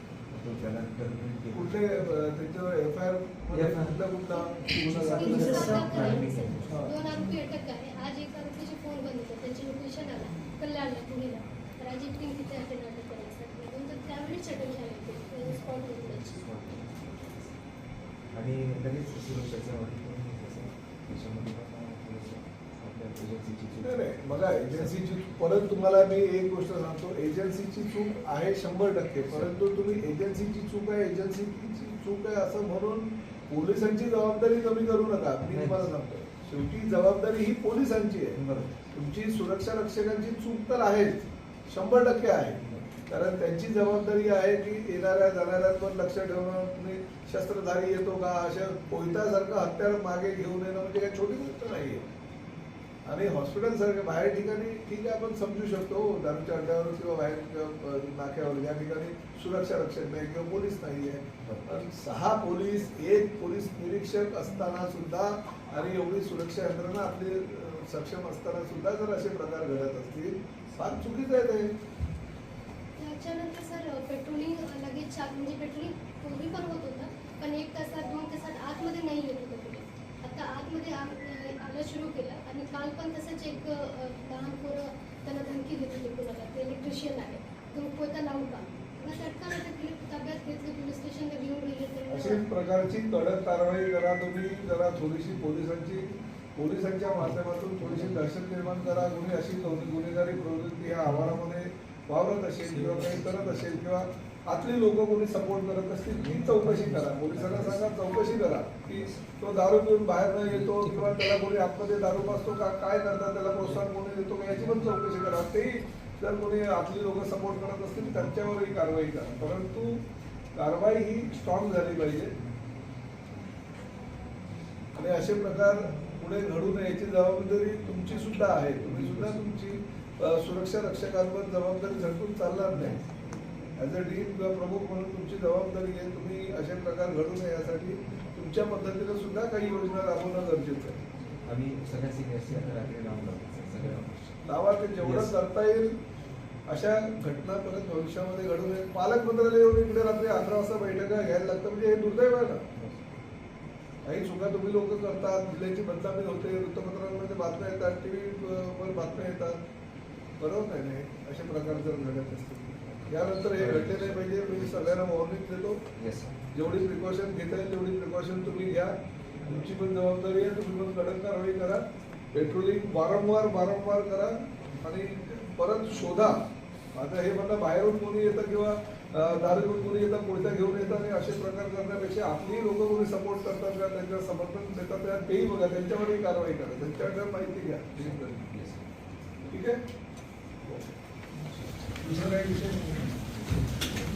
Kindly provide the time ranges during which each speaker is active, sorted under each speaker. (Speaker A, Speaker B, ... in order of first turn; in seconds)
Speaker A: 0.3-1.8, 3.5-4.0, 4.8-6.9, 16.2-17.6, 18.3-24.9, 29.2-29.6, 35.5-35.9, 38.3-38.9, 42.5-42.9, 61.4-61.9, 107.1-107.9, 108.9-109.2, 132.7-133.1, 141.4-144.4, 145.0-145.4, 163.5-164.8, 165.9-166.3, 187.9-188.9
Speaker B: 1.5-6.1, 23.8-38.4, 38.9-52.0, 53.0-71.7, 92.1-120.0, 120.5-122.3, 124.9-133.0, 133.8-141.0, 144.4-145.9, 146.7-152.6, 154.0-159.6, 160.4-165.8, 166.5-171.8, 172.3-176.4, 176.9-188.4, 189.5-189.8, 192.0-193.1
Speaker C: 5.1-16.4, 73.0-92.4